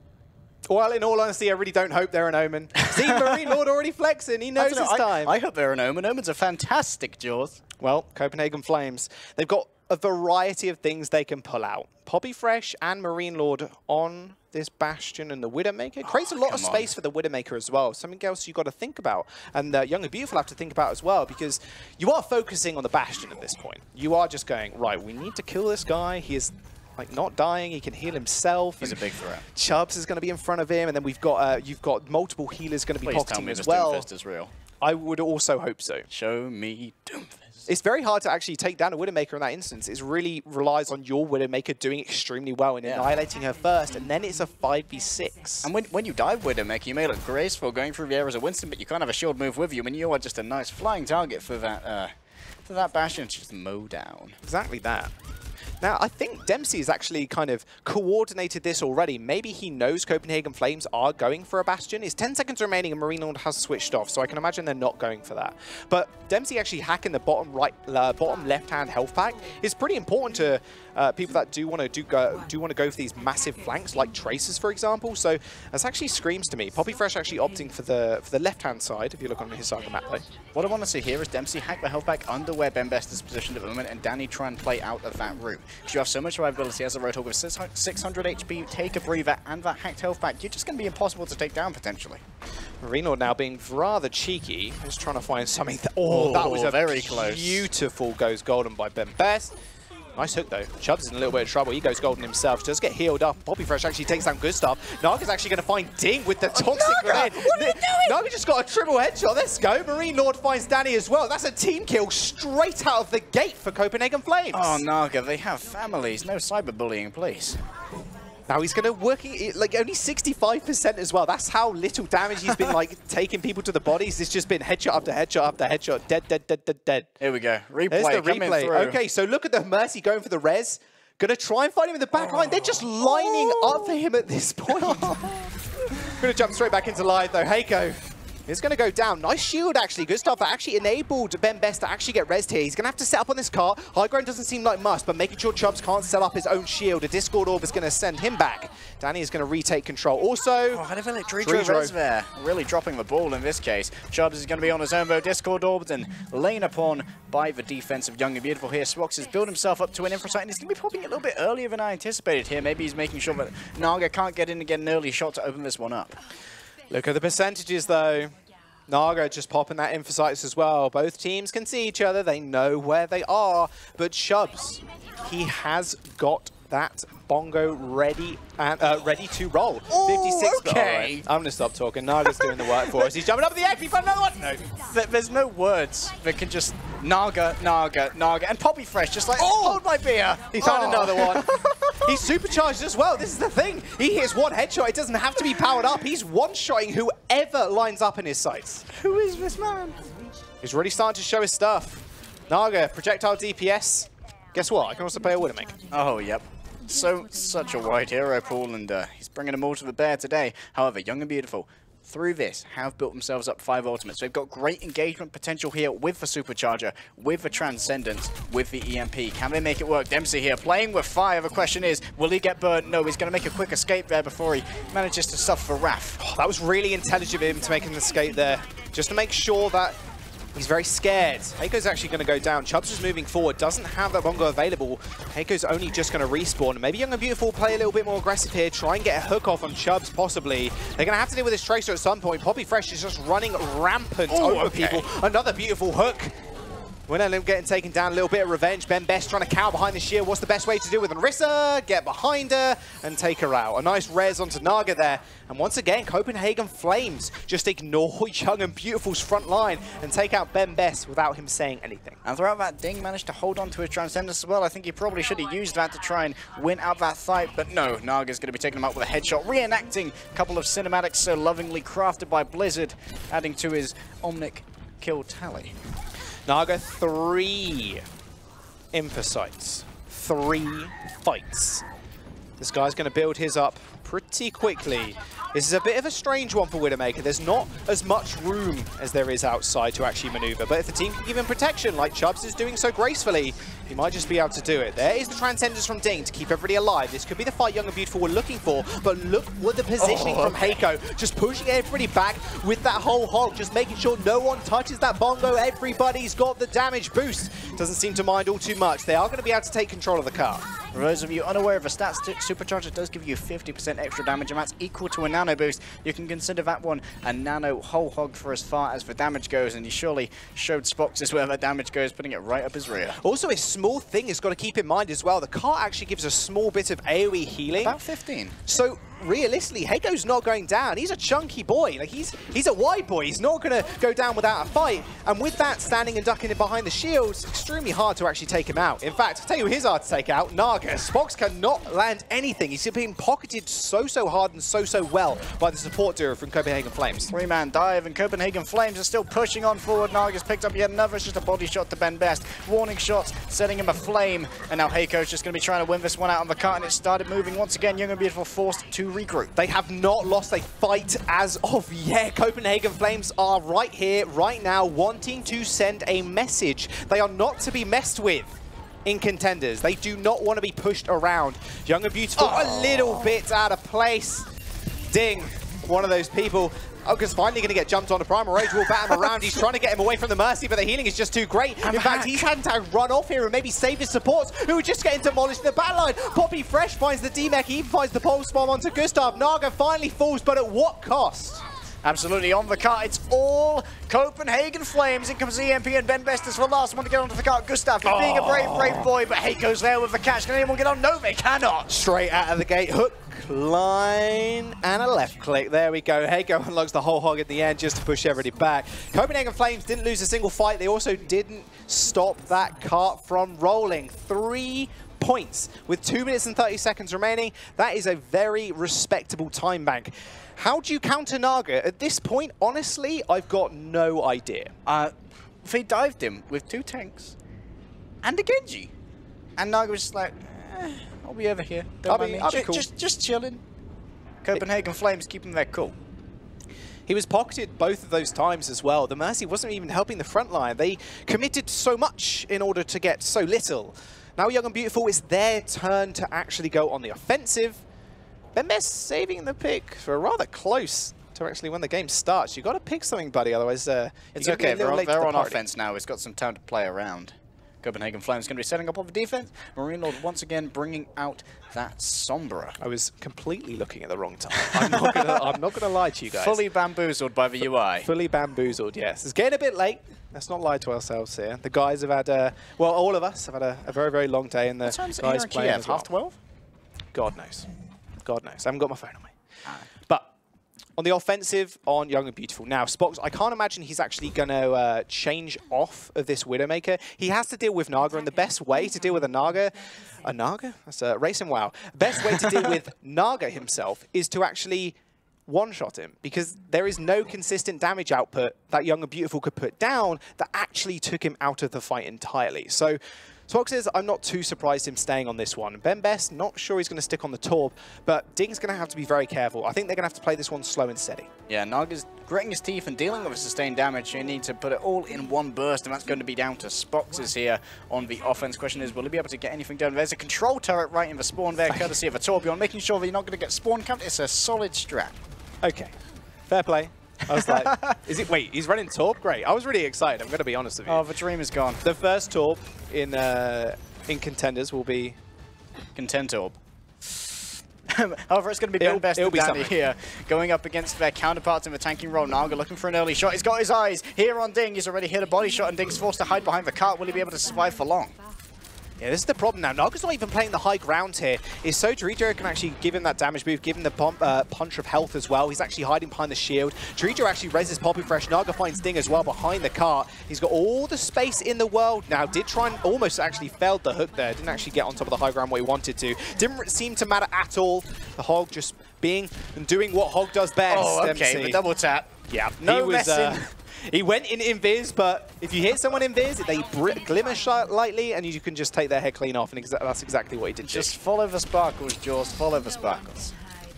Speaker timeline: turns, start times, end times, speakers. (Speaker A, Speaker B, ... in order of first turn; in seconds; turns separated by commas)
Speaker A: 0.7-5.3, Speaker B: 2.9-3.5, Speaker B: 4.6-7.6, Speaker A: 7.8-34.1, Speaker B: 16.2-16.9, Speaker B: 28.8-29.4, Speaker B: 33.0-34.5, Speaker A: 34.8-36.0, Speaker B: 36.1-37.6, Speaker A: 37.7-45.7, Speaker B: 42.8-43.1, Speaker B: 45.6-52.1, Speaker B: 52.6-54.4, Speaker A: 54.4-55.1, Speaker A: 55.8-80.2, Speaker B: 80.5-92.2, Speaker A: 92.8-99.5, Speaker B: 96.1-97.7, Speaker A: 100.2-114.8, Speaker B: 106.5-108.2, Speaker B: 114.5-117.6, Speaker A: 118.5-127.1, Speaker B: 127.2-129.0, Speaker A: 127.9-135.4, Speaker B: 132.3-133.9, Speaker B: 134.7-135.4, Speaker A: 136.1-150.8, Speaker B: 150.7-166.2, Speaker A: 151.4-151.9, Speaker A: 166.9-168.3, Speaker A: 168.9-184.7, Speaker B: 179.9-181.2, Speaker B: 182.3-183.0, Speaker B: 184.8-192.2, Speaker A: 189.3-189.8, Speaker A: 190.5-198.8, Speaker B: 198.9-200.0, Speaker A: 200.6-205.8, Speaker B: 205.9-226.2, Speaker A: 226.2-230.0, Speaker A: 230.5-246.3, Speaker B: 244.3-245.1, Speaker A: 247.1-262.2, Speaker B: 262.2-275.7, Speaker A: 276.5-278.0, Speaker A: 278.9-281.8, Speaker A: 282.6-310.7, Speaker B: 300.0-300.8, Speaker B: 310.9-323.2, Speaker A: 323.2-328.0, Speaker B: 327.8-328.6, Speaker A: 328.7-347.3, Speaker B: 347.3-359.5, Speaker A: 359.6-374.5, Speaker B: 372.4-373.4, Speaker A: 375.1-391.6, Speaker B: 381.8-382.5, Speaker B: 392.0-401.9, Speaker A: 398.0-399.1, Speaker A: 401.9-424.7, Speaker B: 424.9-427.4, Speaker B: 428.2-428.9, Speaker B: 429.6-433.6, Speaker A: 432.1-432.9, Speaker B: 434.4-435.9, Speaker A: 437.1-447.8, Speaker A: 448.5-455.6, Speaker B: 454.4-462.8, Speaker A: 462.8-466.6, Speaker B: 464.6-465.4, Speaker B: 466.3-468.1, Speaker A: 468.0-476.1, Speaker B: 474.8-476.4, Speaker A: 477.1-477.7, Speaker A: 478.2-479.3, Speaker A: 480.1-480.3, Speaker A: 481.0-494.9, Speaker A: 495.5-511.3, Speaker B: 511.5-525.2, Speaker A: 525.6-525.9, Speaker A: 526.5-531.0, Speaker B: 527.4-528.0, Speaker B: 530.9-531.8, Speaker A: 531.8-535.2, Speaker B: 536.0-537.3, Speaker B: 537.9-548.1, Speaker A: 538.8-539.7, Speaker A: 549.0-571.6, Speaker B: 570.7-573.5, Speaker A: 572.3-580.9, Speaker B: 580.6-583.3